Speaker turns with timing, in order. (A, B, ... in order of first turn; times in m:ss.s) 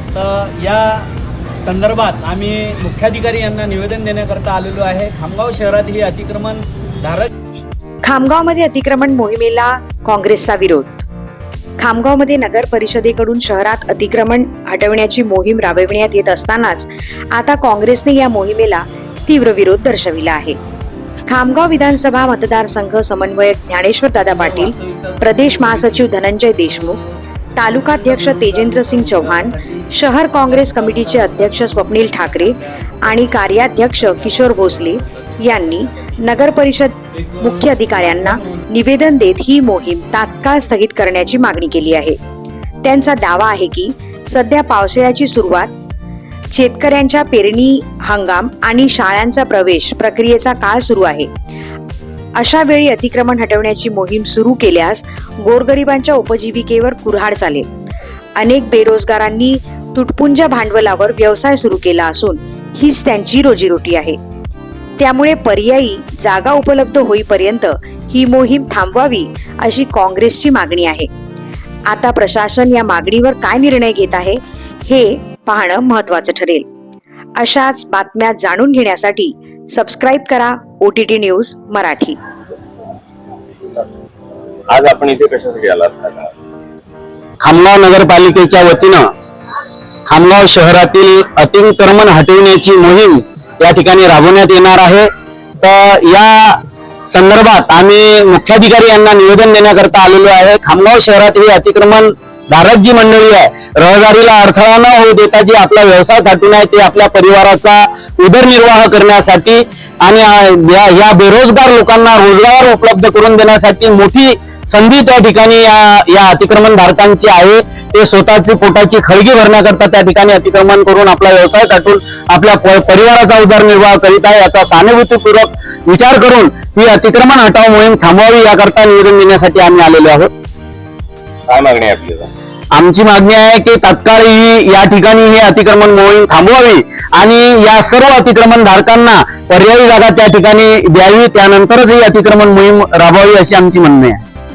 0:00.1-0:01.1 A
0:01.6-0:07.3 A
0:08.0-0:11.0 B
0:11.8-0:20.6 B
0:21.3-0:27.0 B
0:24.3-0:36.2 A
0:27.6-0:42.2 B
0:37.1-0:38.7 A
0:42.8-0:45.7 B
0:46.5-0:51.3 B
0:52.4-0:57.7 B
0:58.4-1:04.2 B
1:05.0-1:11.1 B
1:11.9-1:16.6 B
1:17.4-1:22.2 B
1:24.7-1:26.3 C
1:27.4-1:29.1 D
1:30.1-1:35.1 D
1:35.6-2:10.3 D
2:11.5-2:12.3 C
2:12.7-2:24.2 D